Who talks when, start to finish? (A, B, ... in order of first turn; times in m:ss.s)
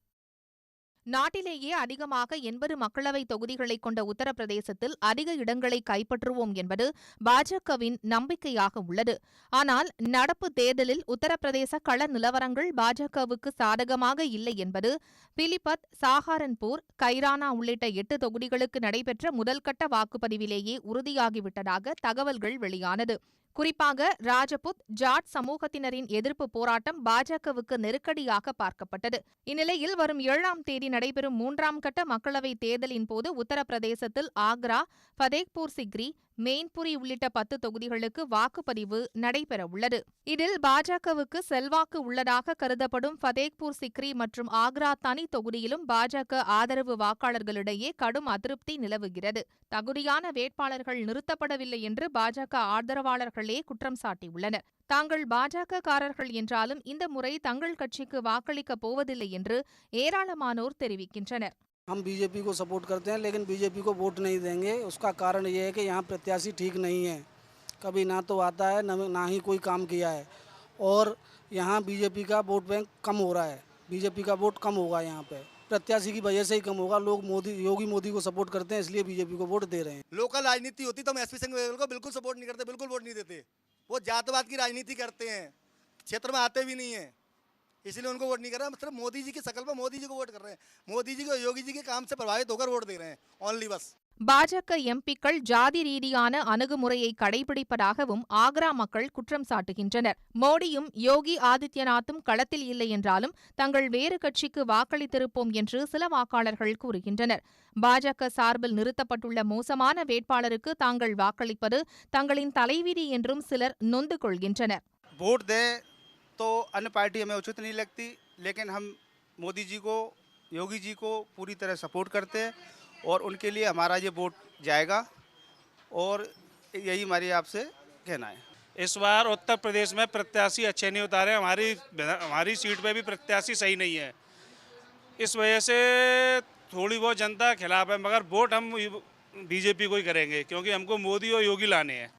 0:01.2-1:01.5 A
1:01.9-1:07.2 B
1:07.8-1:10.3 B
1:10.8-1:20.0 B
1:20.1-1:25.5 C
1:26.1-1:27.1 C
1:27.8-1:33.9 C
1:34.3-1:54.8 A
1:55.2-1:55.8 D
1:56.4-2:02.5 D
2:03.0-2:05.0 D
2:05.9-2:08.4 D
2:08.8-2:14.1 E
2:15.2-2:22.1 E